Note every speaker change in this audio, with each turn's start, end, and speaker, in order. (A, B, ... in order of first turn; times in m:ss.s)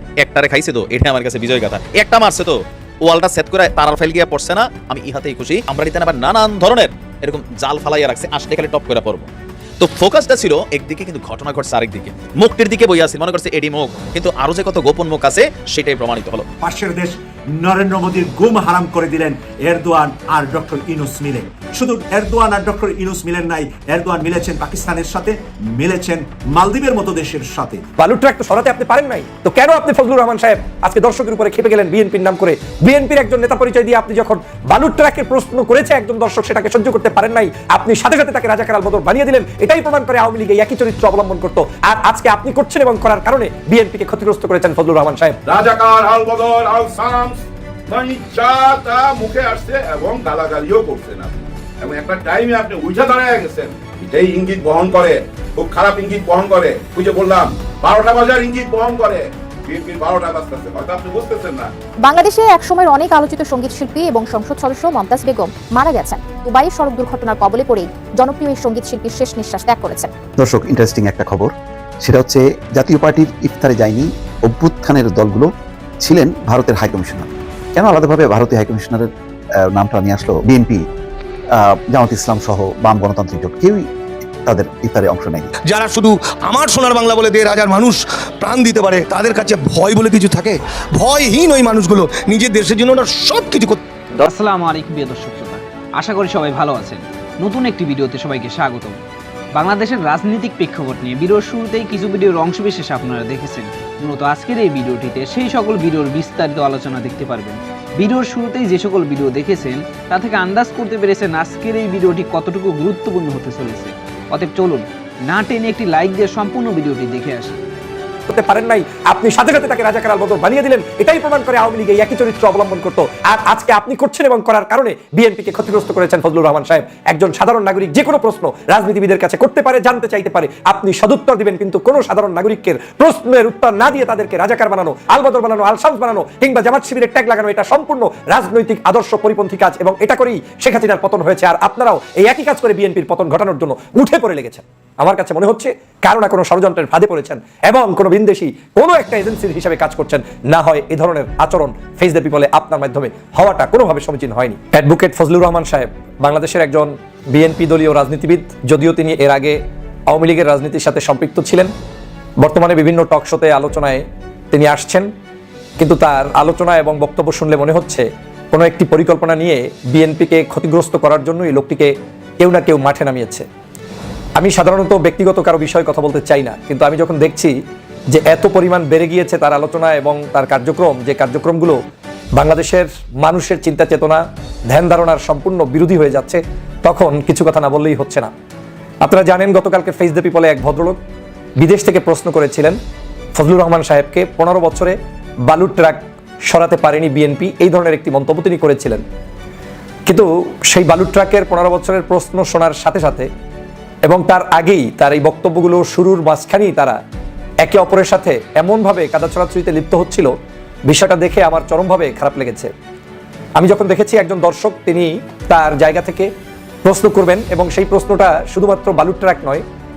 0:00.2-0:09.3 A
0:09.8-0:16.4 A
0:16.6-0:27.8 B
0:28.0-0:45.4 C
0:45.5-1:01.7 D
1:02.0-1:10.1 E
1:10.4-1:11.5 F
1:12.0-1:15.5 F
1:16.0-1:19.1 F
1:19.7-1:20.8 F
1:21.6-1:23.8 F
1:24.4-1:25.5 F
1:25.7-1:33.8 G
1:34.2-1:39.0 H
1:39.5-1:57.6 H
1:58.3-2:39.6 C
2:40.1-2:41.7 C
2:42.4-2:45.1 C
2:45.8-2:53.4 C
2:54.4-2:57.6 C
2:58.1-3:01.8 C
3:02.3-3:08.3 C
3:09.0-3:11.0 C
3:11.6-3:12.8 C
3:13.3-3:15.0 C
3:15.5-3:19.0 C
3:20.1-3:23.3 C
3:24.0-3:27.0 C
3:27.6-3:30.3 C
3:30.9-3:32.7 C
3:33.6-3:36.3 C
3:36.8-3:39.6 C